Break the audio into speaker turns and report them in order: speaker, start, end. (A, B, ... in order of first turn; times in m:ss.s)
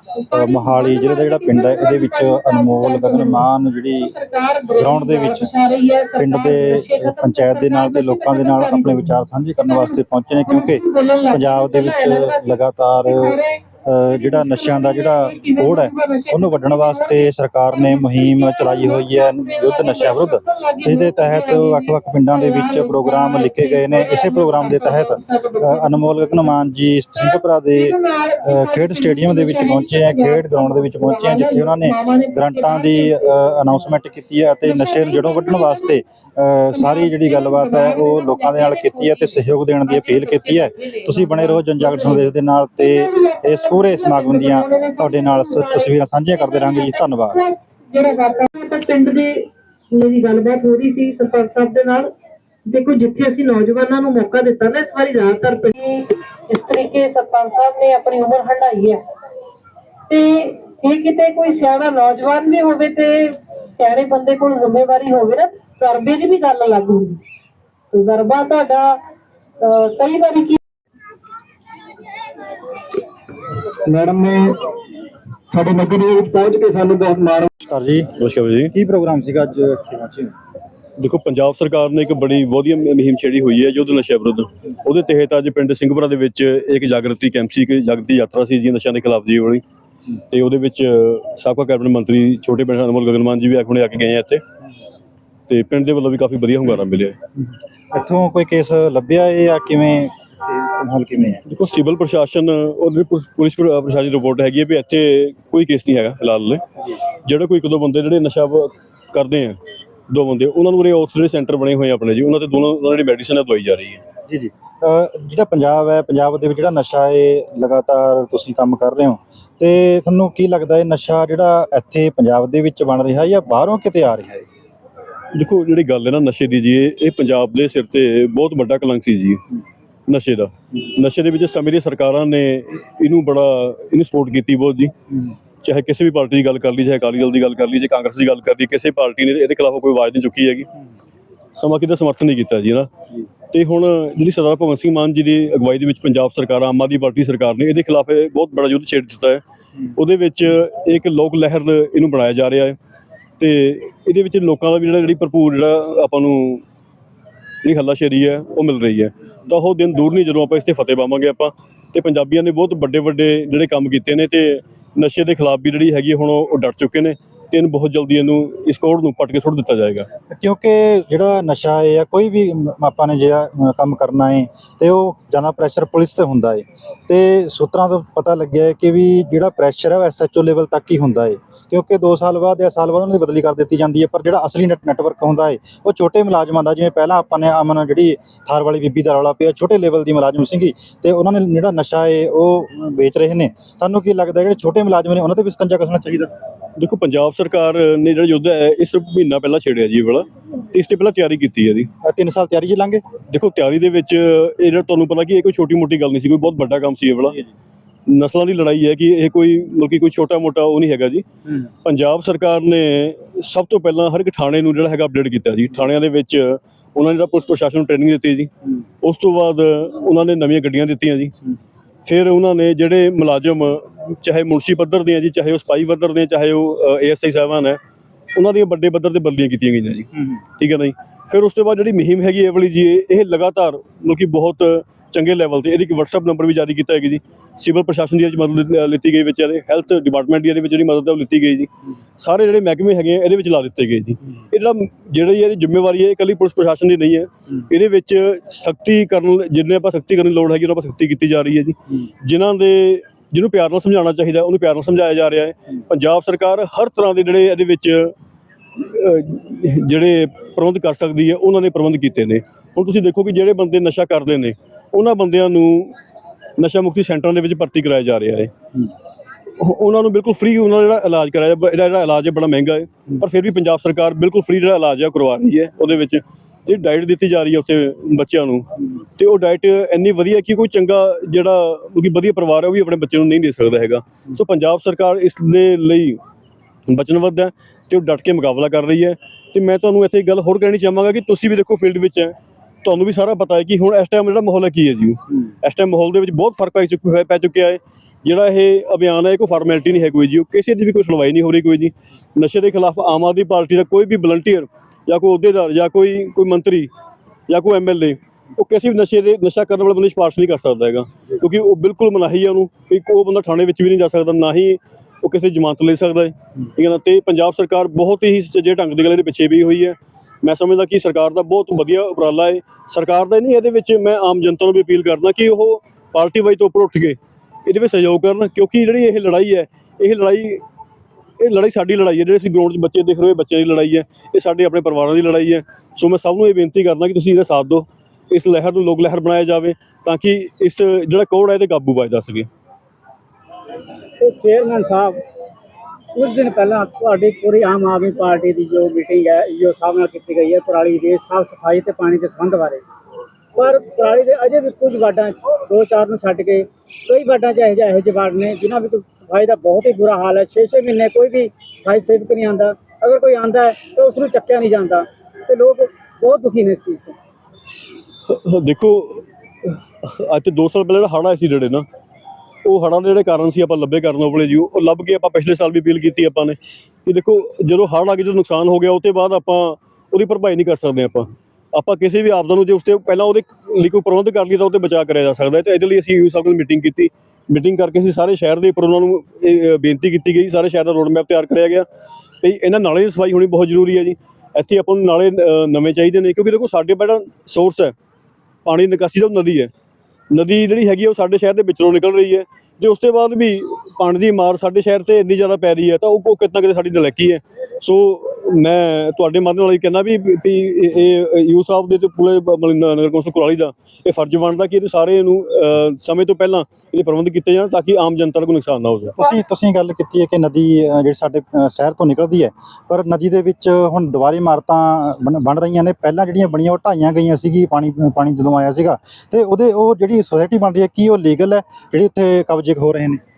0:00.2-0:03.5 A
0:00.3-0:04.1 B
0:04.0-0:26.5 A
0:04.8-0:05.6 B
0:06.2-0:47.4 B
0:27.2-0:33.9 A
0:34.6-0:36.0 A
0:36.7-0:42.3 A
0:42.8-0:52.1 A
0:52.6-0:59.0 A
1:00.1-1:07.2 A
1:07.9-1:09.0 A
1:09.6-1:10.6 A
1:13.8-1:14.6 C
1:15.5-1:17.5 C
1:17.6-1:18.1 B
1:18.2-1:18.7 D
1:18.7-1:20.3 B
1:21.0-1:29.6 D
1:30.3-1:34.4 D
1:35.5-1:37.2 D
1:37.9-1:41.4 B
1:41.5-1:46.6 D
1:47.2-1:49.6 D
1:50.1-1:54.0 D
1:54.3-2:04.4 B
2:05.3-2:09.4 D
2:10.1-2:14.9 D
2:15.6-2:20.7 D
2:21.6-2:22.9 D
2:23.5-2:29.4 D
2:29.9-2:32.8 D
2:33.4-2:36.6 D
2:37.6-2:50.1 D
2:50.3-3:16.3 B
3:16.8-3:21.9 D
3:22.0-3:23.0 B
3:23.3-3:27.4 D
3:28.1-3:31.2 D
3:31.8-3:38.5 D
3:39.0-3:41.3 D
3:42.0-3:47.8 D
3:48.3-4:18.1 D
4:18.8-4:25.9 D
4:26.6-4:28.5 D
4:29.6-4:46.2 D
4:46.9-5:06.9 D
5:07.5-5:30.6 D
5:31.4-5:42.5 D
5:44.2-5:45.2 E
5:46.1-5:52.8 E
5:53.5-6:07.1 E
6:08.3-6:11.8 D
6:12.6-6:31.9 D
6:32.4-6:37.9 D
6:38.6-6:39.7 D
6:40.3-6:59.1 D
6:59.2-7:13.2 B